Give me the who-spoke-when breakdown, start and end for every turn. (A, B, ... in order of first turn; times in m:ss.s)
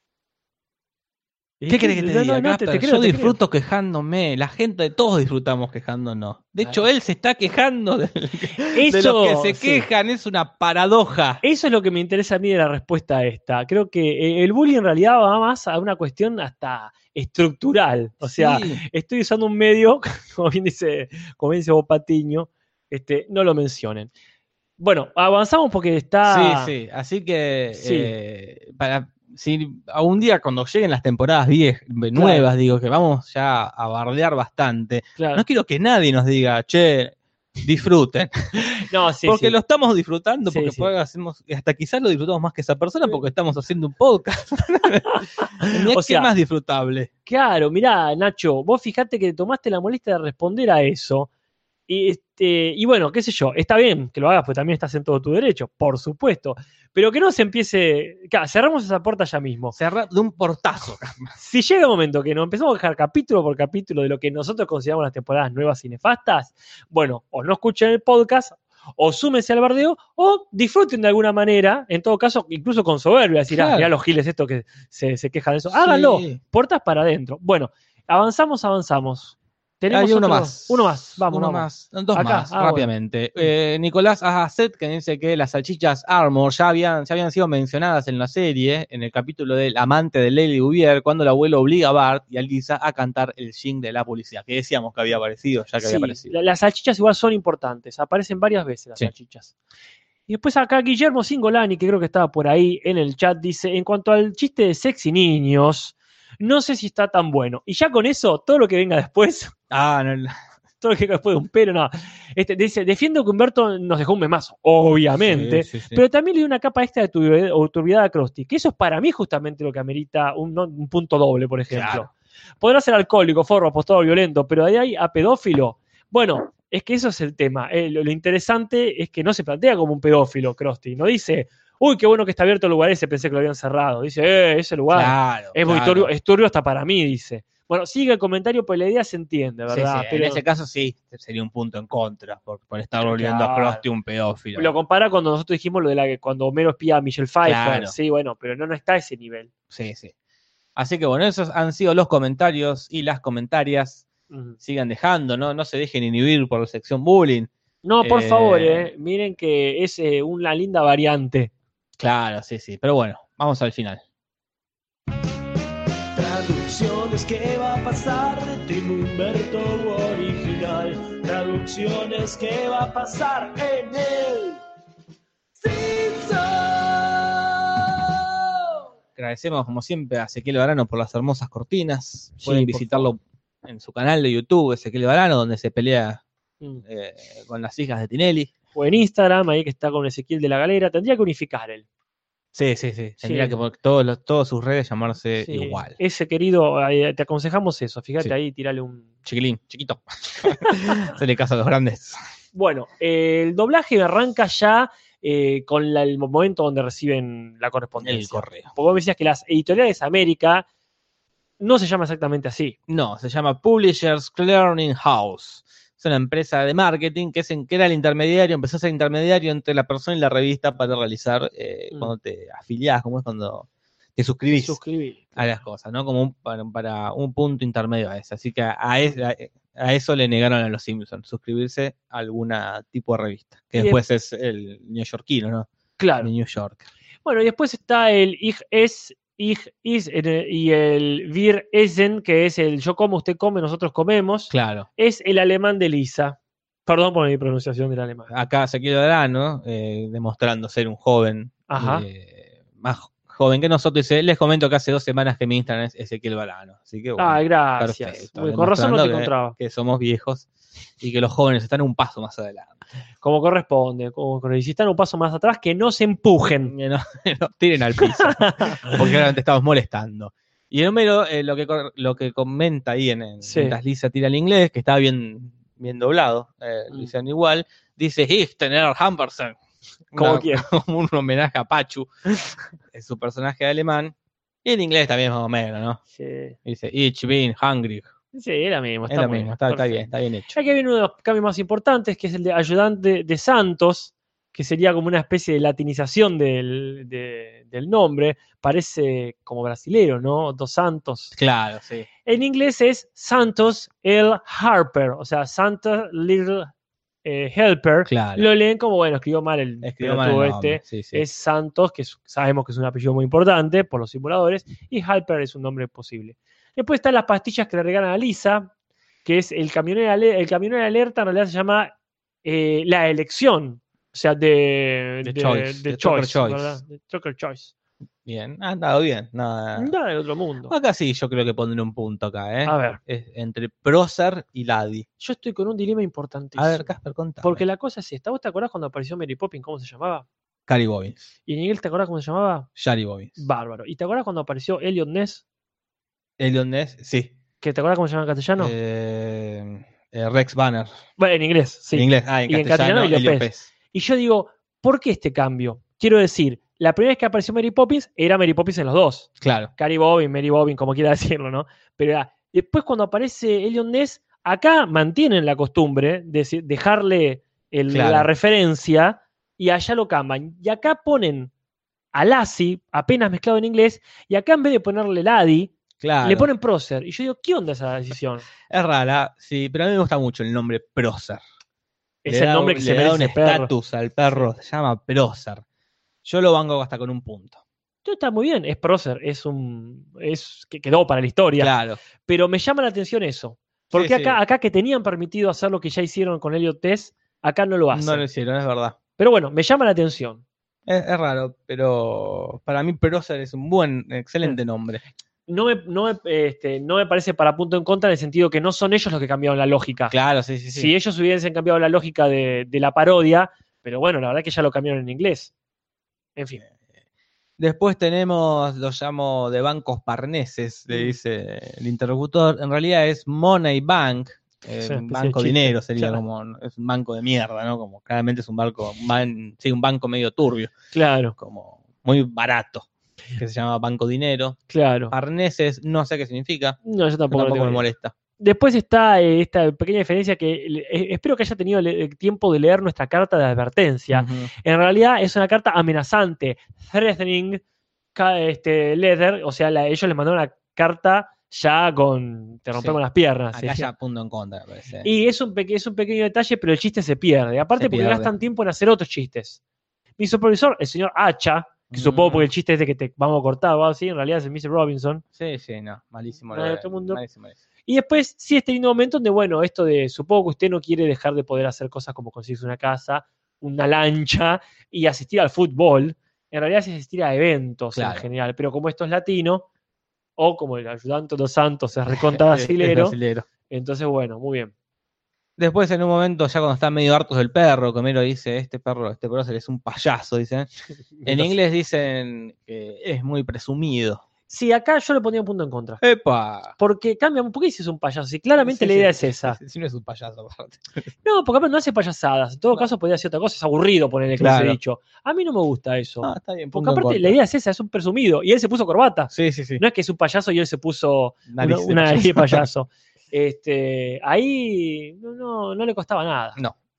0:01.6-0:03.4 A
0:01.7-0:11.4 B
0:08.7-0:09.8 A
0:11.4-0:24.1 A
0:18.2-0:18.8 B
0:24.8-0:26.7 A
0:26.2-0:47.1 B
0:27.7-0:28.1 A
0:32.1-0:32.4 A
0:35.2-0:35.4 A
0:38.7-0:39.6 A
0:40.4-0:40.9 A
0:45.1-0:46.3 A
0:47.3-0:51.3 A
0:51.9-0:59.8 A
0:59.7-1:01.3 B
1:01.4-1:22.9 A
1:13.5-1:13.9 B
1:15.7-1:16.4 B
1:19.9-1:36.3 B
1:35.8-1:39.5 A
1:40.3-1:49.5 A
1:49.7-1:50.3 B
1:50.8-2:02.1 A
1:55.2-1:56.0 B
2:01.7-2:02.1 B
2:02.6-2:20.4 A
2:14.9-2:16.1 B
2:19.7-2:24.7 B
2:23.0-2:23.8 A
2:24.5-2:29.5 A
2:27.4-2:27.9 B
2:29.7-2:30.1 B
2:30.8-2:34.0 B
2:34.3-2:34.6 A
2:34.6-2:37.5 B
2:37.8-2:41.5 A
2:38.0-2:38.9 B
2:42.0-2:44.0 B
2:46.2-2:54.6 C
2:55.6-2:57.4 C
2:59.2-3:06.2 B
3:02.4-3:03.1 A
3:06.8-3:08.5 B
3:08.7-3:11.8 A
3:12.5-3:16.0 B
3:13.2-3:13.6 A
3:15.4-3:19.1 A
3:19.2-3:22.2 B
3:20.7-3:21.0 A
3:22.5-3:30.6 A
3:28.0-3:28.7 B
3:31.6-3:32.7 A
3:32.9-3:44.8 B
3:44.6-3:45.5 A
3:45.4-3:55.7 B
3:56.0-3:56.3 A
3:56.2-3:56.8 B
3:57.2-4:08.3 A
4:04.5-4:04.9 B
4:08.3-4:20.5 B
4:11.7-4:12.0 A
4:17.2-4:19.6 A
4:21.0-4:22.7 B
4:23.2-4:26.7 A
4:26.7-4:39.6 B
4:28.0-4:29.0 A
4:33.4-4:33.8 A
4:40.1-4:44.1 B
4:40.2-4:40.7 A
4:44.6-4:46.0 B
4:46.1-4:46.6 A
4:46.6-4:48.1 B
4:48.3-5:01.3 A
4:49.1-4:50.6 B
5:01.3-5:02.1 B
5:02.2-5:06.7 A
5:07.2-5:18.7 A
5:08.1-5:08.5 B
5:09.8-5:11.2 B
5:19.2-5:27.7 A
5:25.2-5:26.8 B
5:28.2-5:29.9 B
5:29.7-5:30.7 A
5:30.7-5:35.0 B
5:32.6-5:33.0 A
5:35.2-5:36.9 A
5:36.6-5:37.6 B
5:37.4-5:40.2 A
5:40.7-5:41.3 B
5:41.4-5:42.7 A
5:42.8-5:43.4 B
5:43.4-5:45.4 A
5:46.4-5:47.3 B
5:47.6-5:48.7 A
5:48.6-5:50.9 B
5:51.2-6:11.5 A
5:51.9-5:53.7 B
5:59.4-5:59.7 B
6:07.9-6:08.3 B
6:12.1-6:18.5 A
6:16.0-6:16.5 B
6:18.7-6:21.4 B
6:22.2-6:23.7 A
6:22.2-6:25.6 B
6:26.2-6:27.6 B
6:28.0-6:38.2 A
6:31.6-6:32.0 B
6:33.9-6:34.4 B
6:37.9-6:39.0 B
6:39.2-6:40.4 A
6:40.9-6:45.0 B
6:45.5-6:50.1 A
6:50.1-6:50.9 B
6:50.7-6:55.5 A
6:56.4-6:56.6 A
6:57.6-7:10.7 B
7:00.9-7:01.2 A
7:04.8-7:06.2 A
7:10.9-7:11.3 A
7:11.4-7:14.6 B
7:14.7-7:15.1 A
7:15.1-7:16.8 B
7:16.8-7:17.9 A
7:17.3-7:18.1 B
7:18.4-7:27.6 A
7:24.1-7:24.5 B
7:28.1-7:33.9 A
7:33.5-7:35.1 B
7:35.0-7:39.6 A
7:37.8-7:38.3 B
7:40.2-7:45.2 A
7:41.9-7:42.5 B
7:45.4-7:47.6 B
7:46.5-7:47.2 A
7:47.9-7:59.6 A
7:57.9-7:58.2 B
8:00.4-8:03.2 A
8:02.1-8:03.4 B
8:03.7-8:04.7 A
8:05.6-8:10.7 B
8:11.2-8:11.5 A
8:11.2-8:14.2 B
8:14.5-8:16.0 A
8:16.0-8:16.7 B
8:16.8-8:19.6 A
8:18.6-8:21.1 B
8:21.2-8:36.6 A
8:24.4-8:24.8 B
8:26.2-8:27.4 B
8:29.3-8:29.8 B
8:31.5-8:32.7 B